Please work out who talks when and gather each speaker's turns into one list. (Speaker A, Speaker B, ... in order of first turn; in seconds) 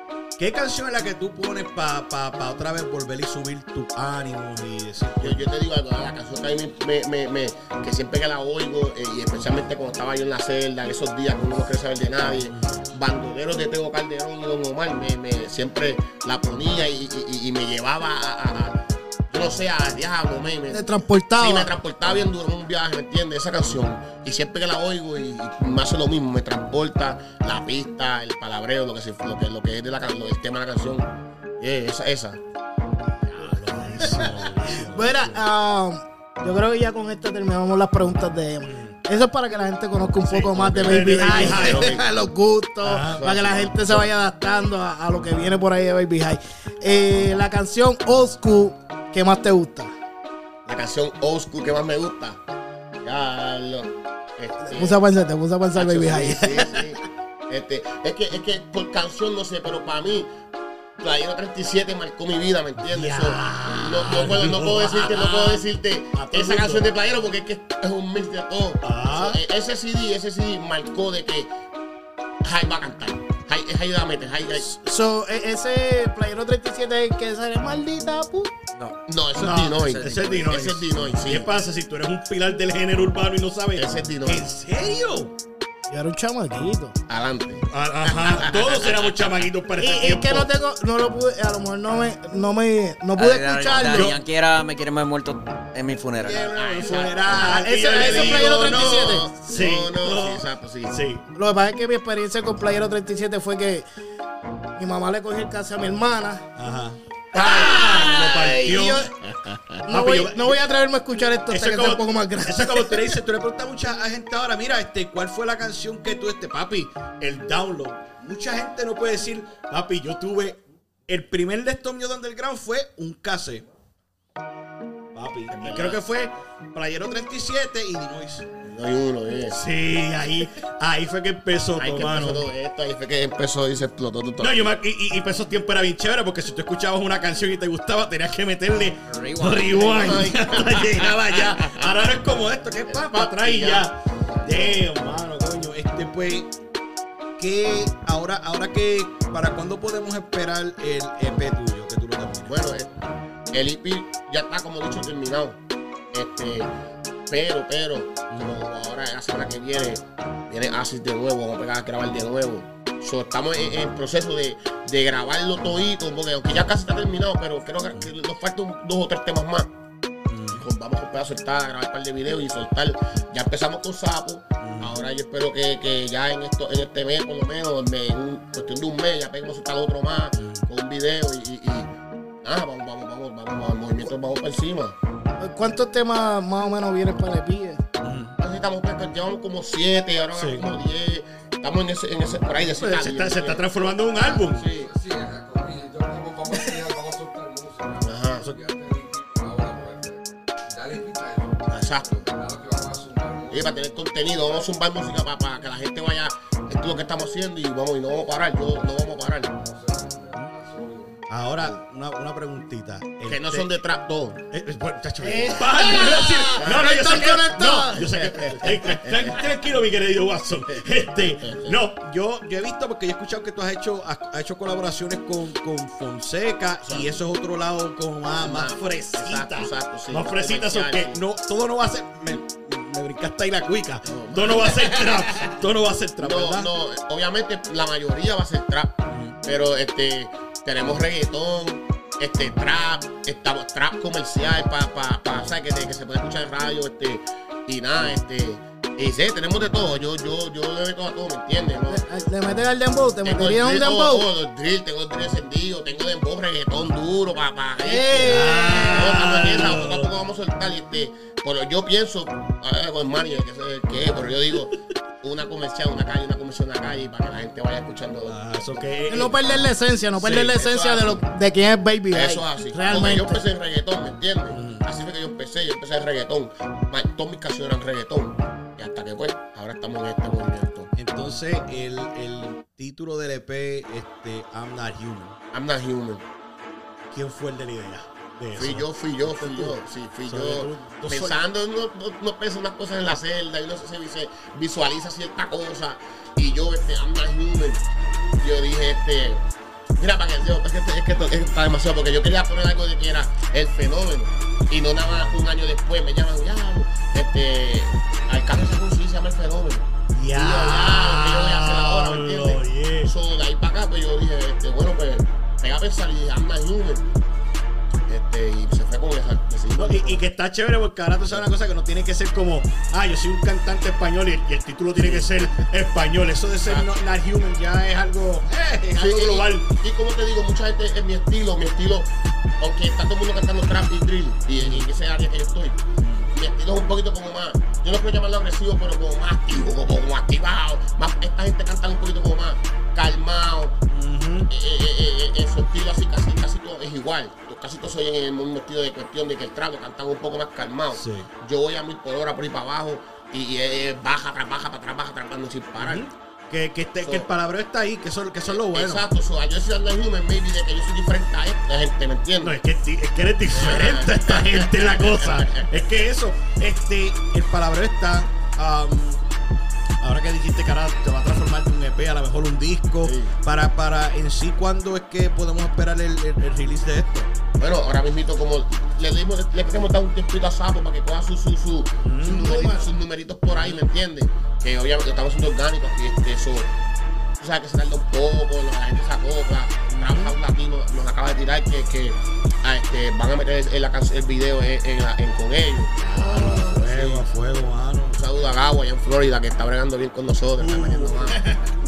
Speaker A: 0.4-5.5, 12.3-12.8, 33.3-35.4, 38.6-39.0, 40.2-42.0, 42.8-43.2, 62.9-66.9, 68.8-69.4, 79.3-85.3, 87.7-90.5, 93.9-94.2, 96.2-101.2, 106.6-109.1, 109.9-110.7, 111.5-123.6, 125.1-128.5, 129.5-132.4, 134.4-146.5, 147.4-152.6, 158.3-158.6, 170.3-170.6, 174.6-175.0, 180.4-180.7, 188.0-188.3, 190.3-190.7, 192.7-194.7, 211.3-213.7, 214.5-236.7, 239.1-239.4, 258.2-260.1, 268.3-269.7, 274.5-274.9, 280.9-285.4, 287.1-289.8, 290.3-291.4, 305.0-305.3, 310.1-313.1, 319.8-329.7, 334.6-334.9, 336.0-336.3, 343.9-344.5, 350.9-351.3, 355.8-359.1, 362.4-369.2, 370.0-377.3, 382.0-382.5, 383.5-383.8, 389.9-390.3, 396.0-398.2, 400.6-401.7
Speaker B: 5.2-32.4, 40.4-42.0, 43.1-44.1, 50.6-52.4, 53.0-55.0, 55.7-60.3, 61.0-71.5, 72.4-74.7, 79.1-81.5, 83.8-84.5, 87.1-89.1, 96.4-101.0, 107.3-109.8, 125.5-126.0, 128.6-129.6, 131.8-134.7, 139.7-141.6, 142.9-144.8, 152.4-152.9, 153.5-155.6, 156.1-156.7, 157.3-169.7, 170.5-181.9, 182.4-184.9, 188.4-194.9, 198.0-198.5, 201.7-202.2, 203.5-209.5, 213.2-214.4, 216.6-217.0, 218.0-219.4, 220.8-221.8, 226.8-227.1, 228.4-231.2, 234.0-235.4, 236.2-238.9, 239.4-252.0, 253.2-268.8, 270.2-271.2, 272.1-280.9, 285.5-286.2, 288.5-297.8, 298.4-299.4, 300.0-317.1, 318.1-320.2, 325.0-325.5, 326.6-326.9, 328.9-335.8, 336.3-343.8, 344.5-356.0, 357.0-357.3, 358.5-362.6, 363.5-365.7, 373.0-373.3, 377.6-386.7, 387.4-397.3, 398.1-401.4
Speaker C: 20.7-21.7, 34.0-49.9, 54.6-56.9, 74.6-78.5, 85.9-87.0, 89.8-94.1, 97.3-99.3, 101.3-103.9, 104.8-106.4, 107.4-109.1, 109.8-113.2, 185.4-187.8, 215.2-218.4, 251.9-254.2, 257.8-259.3, 269.1-273.4, 382.4-382.9, 396.2-396.8
Speaker D: 79.7-80.4, 93.1-96.5, 139.1-140.2
Speaker E: 194.6-204.6, 208.7-211.2